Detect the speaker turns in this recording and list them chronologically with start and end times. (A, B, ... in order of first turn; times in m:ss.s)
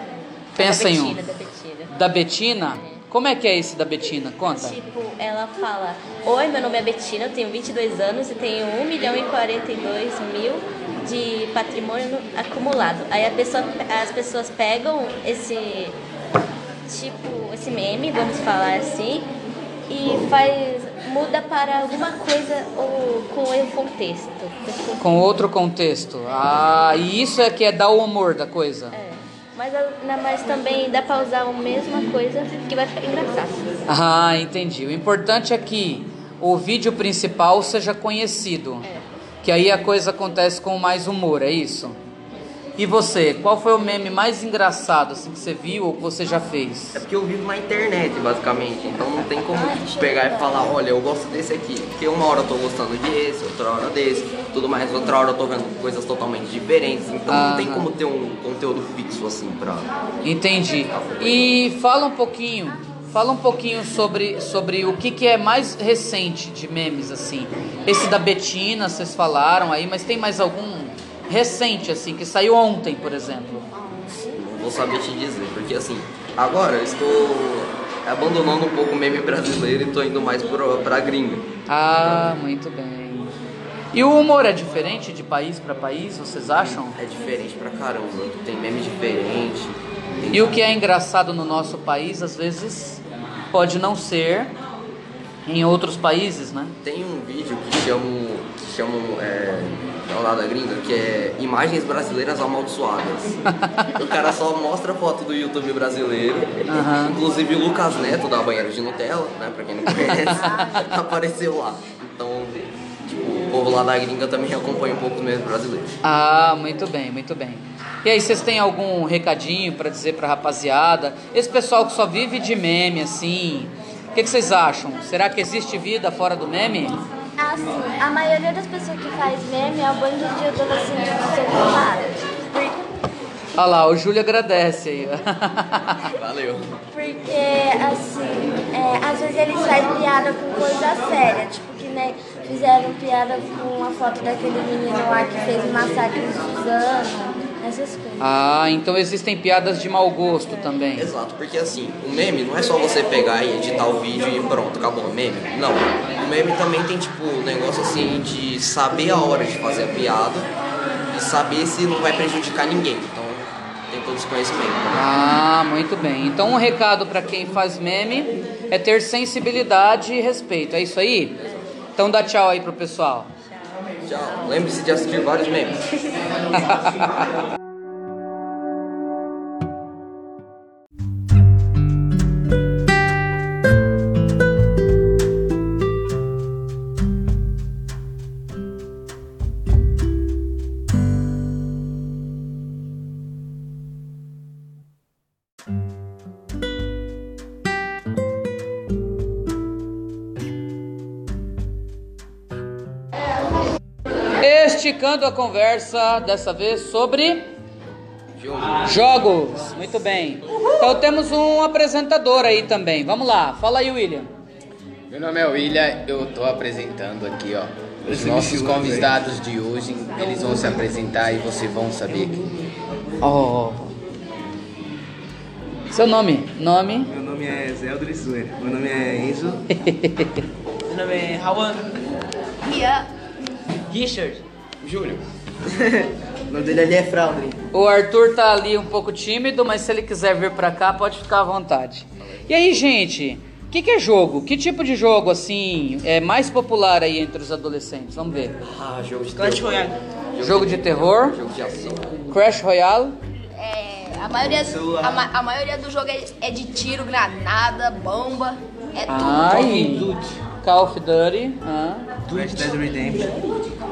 0:00.6-0:01.2 A
0:00.6-0:01.9 B
0:01.9-0:04.8 A
0:02.6-0:03.0 B
0:04.5-0:16.0 B
0:16.8-0:19.3 B
0:19.9-0:25.0 B
0:25.0-0:29.0 A
0:28.9-0:33.8 B
0:33.9-0:38.8 A
0:39.4-0:42.0 A
0:42.8-0:47.0 A
0:47.0-0:59.9 C
0:49.4-0:50.7 D
0:57.3-0:57.9 A
1:00.2-1:13.7 A
1:00.9-1:01.5 C
1:13.8-1:14.2 D
1:14.3-1:21.5 C
1:21.7-1:23.3 A
1:23.9-1:27.0 A
1:27.0-1:30.6 C
1:30.3-1:34.5 A
1:35.4-1:36.7 A
1:36.8-1:55.9 C
1:46.7-1:47.2 A
1:50.0-1:50.8 A
1:56.0-2:07.0 A
2:07.4-2:12.8 D
2:13.6-2:16.1 A
2:16.1-2:16.7 C
2:16.9-2:28.3 D
2:28.2-2:31.1 A
2:31.0-2:40.5 C
2:41.1-2:45.1 C
2:44.9-2:51.4 A
2:52.0-2:53.3 A
2:54.0-2:55.9 C
2:56.5-2:57.3 A
3:24.4-3:27.5 A
3:28.4-3:28.9 C
3:28.8-3:34.3 A
3:35.1-3:42.4 E
3:38.1-3:39.1 F
3:43.2-3:43.9 A
3:45.9-3:47.1 A
3:47.0-3:49.6 F
3:49.7-3:50.4 A
3:50.9-3:51.9 G
3:52.6-3:53.1 H
3:53.9-3:54.4 G
3:54.8-3:55.2 C
3:55.7-3:57.6 F
3:57.7-4:08.6 A
4:02.2-4:02.7 C
4:08.6-4:12.2 C
4:09.3-4:09.9 G
4:10.4-4:11.4 A
4:12.3-4:13.2 A
4:13.5-4:19.6 H
4:14.4-4:15.3 F
4:19.1-4:22.1 A
4:19.5-4:20.3 F
4:22.3-4:23.4 F